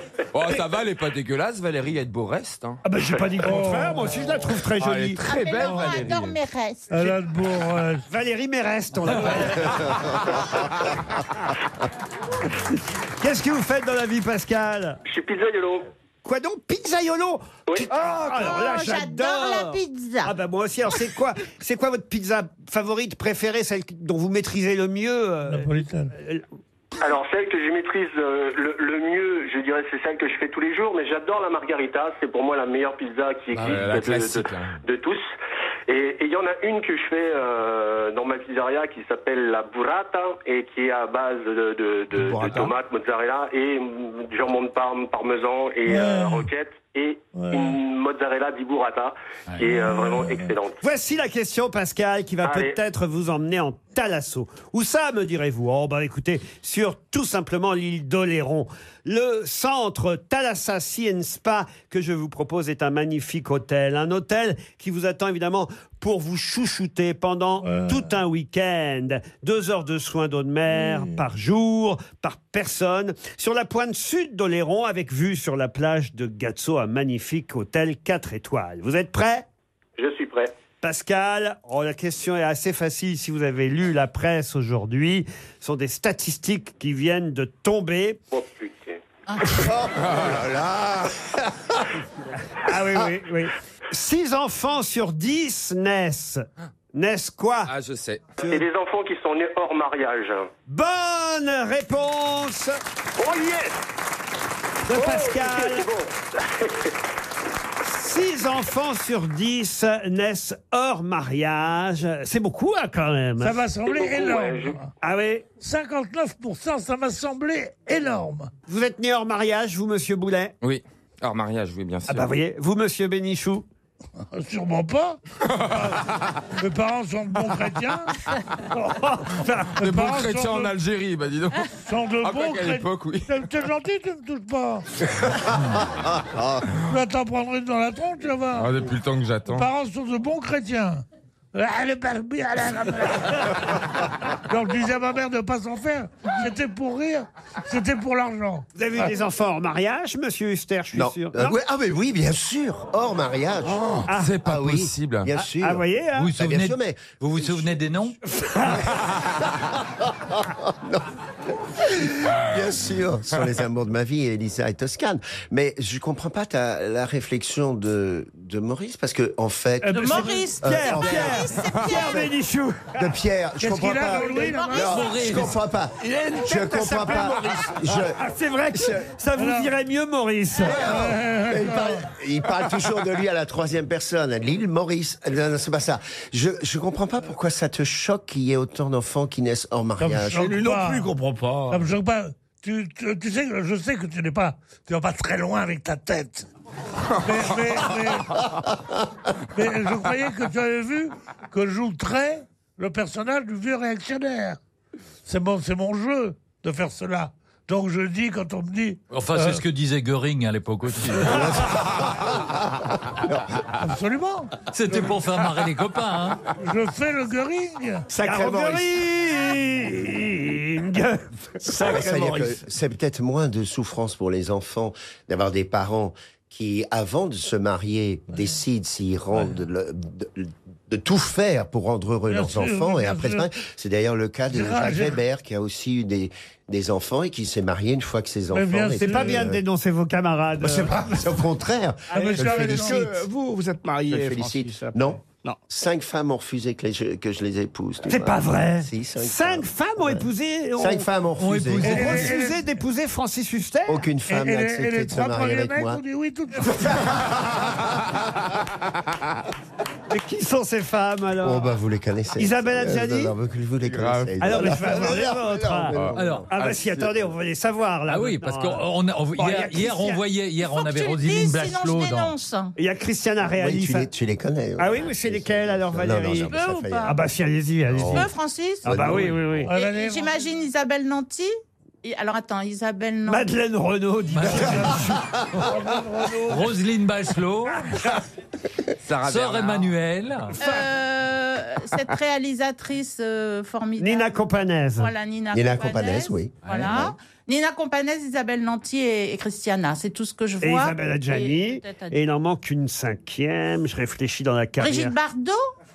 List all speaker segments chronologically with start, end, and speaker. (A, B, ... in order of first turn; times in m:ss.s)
0:00.3-0:02.8 A
0:02.8-0:05.2 B
0:03.4-0:04.2 C
0:04.8-0:06.4 A
0:05.2-0:07.1 D
0:06.9-0:08.0 C
0:08.1-0:10.1 B
0:13.2-0:15.0 B
0:15.0-0:15.9 E
0:16.2-0:26.4 B
0:18.1-0:20.3 D
0:25.5-0:26.1 C
0:27.0-0:35.2 E
0:33.6-0:34.8 A
0:35.9-0:50.8 E
0:45.9-0:46.5 C
0:47.3-0:47.8 C
0:49.6-0:50.6 C
0:50.8-1:19.4 B
0:52.4-0:52.8 E
1:07.6-1:08.1 C
1:10.7-1:11.2 C
1:20.0-1:20.5 E
1:20.8-1:28.2 B
1:28.3-1:29.0 E
1:29.3-1:29.6 D
1:30.0-1:30.4 A
1:32.6-1:37.7 B
1:37.6-1:38.2 A
1:38.4-1:38.6 B
1:38.4-1:40.5 E
1:40.7-1:42.8 B
1:43.2-1:43.7 E
1:44.9-1:45.9 B
1:44.9-1:46.9 E
1:47.8-1:53.6 B
1:53.4-1:54.9 C
1:53.8-1:54.8 E
1:55.0-1:55.5 B
1:55.6-1:58.5 C
1:58.7-2:00.5 B
2:00.6-2:02.3 A
2:02.1-2:03.6 B
2:04.3-2:05.2 C
2:05.5-2:05.9 A
2:06.6-2:08.1 C
2:08.8-2:09.8 B
2:09.5-2:10.7 C
2:09.8-2:11.7 A
2:11.8-2:14.8 C
2:12.2-2:13.5 A
2:16.9-2:18.7 C
2:18.6-2:19.7 A
2:19.5-2:23.6 C
2:24.5-2:29.1 C
2:28.7-2:31.6 B
2:30.9-2:35.8 F
2:33.9-2:35.3 A
2:34.0-2:34.4 B
2:35.4-2:36.4 B
2:36.2-2:38.2 G
2:36.4-2:37.9 F
2:38.3-2:38.9 B
2:41.9-2:50.0 F
2:49.8-2:53.1 B
2:50.0-2:50.4 C
2:50.0-2:52.2 D
2:50.6-2:51.4 F
2:53.0-2:58.2 F
2:53.6-2:55.0 C
2:54.3-2:55.0 D
2:54.8-2:55.6 G
2:56.0-2:58.0 H
2:58.1-3:01.0 B
2:59.4-2:59.7 C
3:00.8-3:10.5 F
3:00.8-3:02.0 C
3:10.0-3:11.1 C
3:10.3-3:11.9 H
3:11.7-3:16.5 C
3:17.2-3:18.4 C
3:19.6-3:24.6 C
3:25.2-3:29.6 C
3:29.1-3:31.6 G
3:31.4-3:32.1 F
3:33.8-3:34.5 C
3:34.7-3:36.4 G
3:36.6-3:38.0 C
3:38.1-3:38.9 H
3:38.2-3:41.2 B
3:41.6-3:42.7 H
3:41.6-3:59.6 F
3:52.3-3:53.5 C
3:54.5-3:55.2 C
3:58.5-3:59.5 C
3:59.0-4:01.4 B
4:00.7-4:03.1 F
4:02.1-4:03.0 C
4:02.1-4:05.6 H
4:04.1-4:10.2 F
4:08.1-4:11.1 B
4:10.8-4:12.3 F
4:11.4-4:12.4 G
4:11.8-4:12.7 C
4:11.8-4:14.1 B
4:13.9-4:16.0 F
4:14.3-4:17.1 C
4:20.1-4:21.8 B
4:21.4-4:26.5 F
4:22.4-4:23.4 B
4:23.9-4:24.7 A
4:24.4-4:30.2 B
4:25.9-4:26.8 A
4:26.1-4:26.5 G
4:28.1-4:32.3 G
4:30.6-4:32.7 D
4:32.8-4:34.1 B
4:33.5-4:37.1 F
4:34.8-4:38.3 B
4:36.5-4:37.2 D
4:38.0-4:38.2 F
4:38.1-4:39.1 D
4:38.8-4:39.5 F
4:38.8-4:39.7 B
4:39.6-4:40.4 C
4:39.7-4:41.5 D
4:42.0-4:43.5 D
4:43.3-4:45.2 B
4:44.4-4:44.8 G
4:44.4-4:46.8 C
4:46.5-4:47.9 G
4:49.0-4:49.9 A
4:49.2-4:50.6 G
4:50.6-4:54.3 D
4:54.0-4:55.1 B
4:55.0-5:02.2 D
4:55.5-4:57.1 F
5:00.6-5:05.1 B
5:04.8-5:05.6 D